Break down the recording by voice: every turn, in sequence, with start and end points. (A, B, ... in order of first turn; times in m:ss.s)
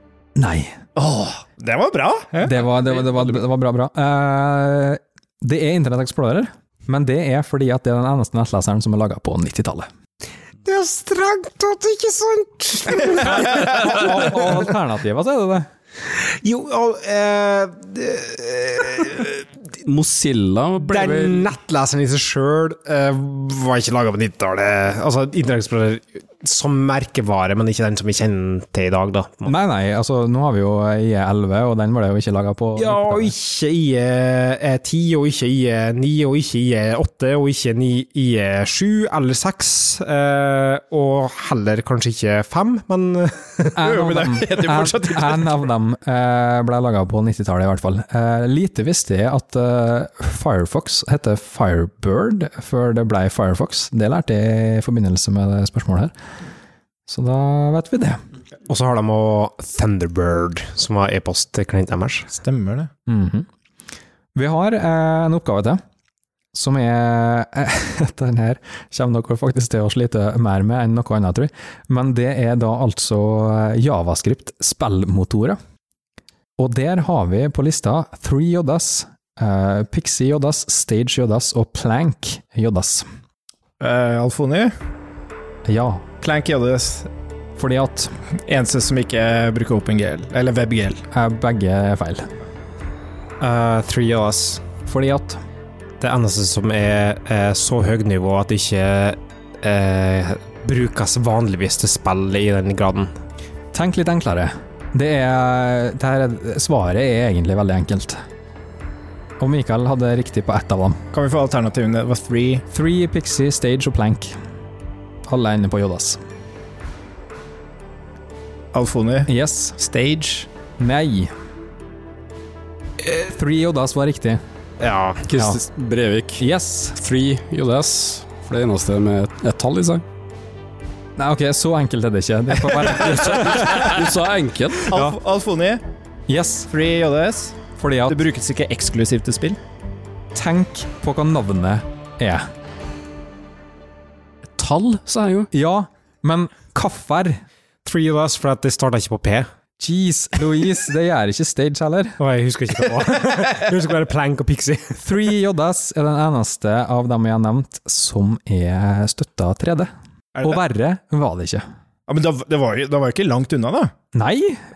0:00.4-0:00.8 A
0:01.0-0:02.6 B
0:02.4-0:09.9 A
0:10.6-0:14.4 C
0:13.4-0:15.7 A
0:16.1-0:19.5 C
0:19.8-0:21.5 D
0:20.8-0:29.5 C
0:29.4-0:33.3 A
0:32.8-0:43.8 C
0:43.7-0:56.1 A
0:43.8-0:45.6 B
0:57.1-0:58.2 A
0:58.7-1:02.3 C
1:02.3-1:02.9 B
1:03.1-1:03.5 A
1:04.3-1:05.8 A
1:06.5-1:15.6 A
1:16.6-1:23.0 A
1:23.8-1:24.7 B
1:25.6-1:26.0 A
1:26.2-1:27.1 B
1:27.6-1:28.1 A
1:28.5-1:31.0 B
1:31.1-1:32.3 A
1:33.4-1:34.6 C
1:34.8-1:35.4 A
1:36.0-1:43.1 C
1:43.7-1:48.2 A
1:49.4-1:51.0 A
1:51.1-1:52.6 B
1:52.7-1:54.3 A
1:55.2-1:56.2 A
1:58.7-2:00.5 B
1:59.3-1:59.8 A
2:00.8-2:01.3 A
2:03.1-2:04.4 A
2:04.8-2:05.2 C
2:05.2-2:06.4 D
2:06.4-2:07.0 A
2:07.0-2:10.0 D
2:11.2-2:14.0 A
2:13.7-2:14.9 D
2:14.8-2:15.8 B
2:14.9-2:15.2 A
2:16.3-2:16.7 A
2:16.7-2:19.6 B
2:17.8-2:18.2 A
2:20.3-2:22.5 A
2:24.6-2:25.5 D
2:25.5-2:27.4 A
2:27.8-2:29.5 C
2:29.8-2:32.2 A
2:32.2-2:35.0 C
2:35.0-2:39.9 A
2:40.4-2:41.6 A
2:42.1-2:43.9 B
2:44.1-2:44.6 A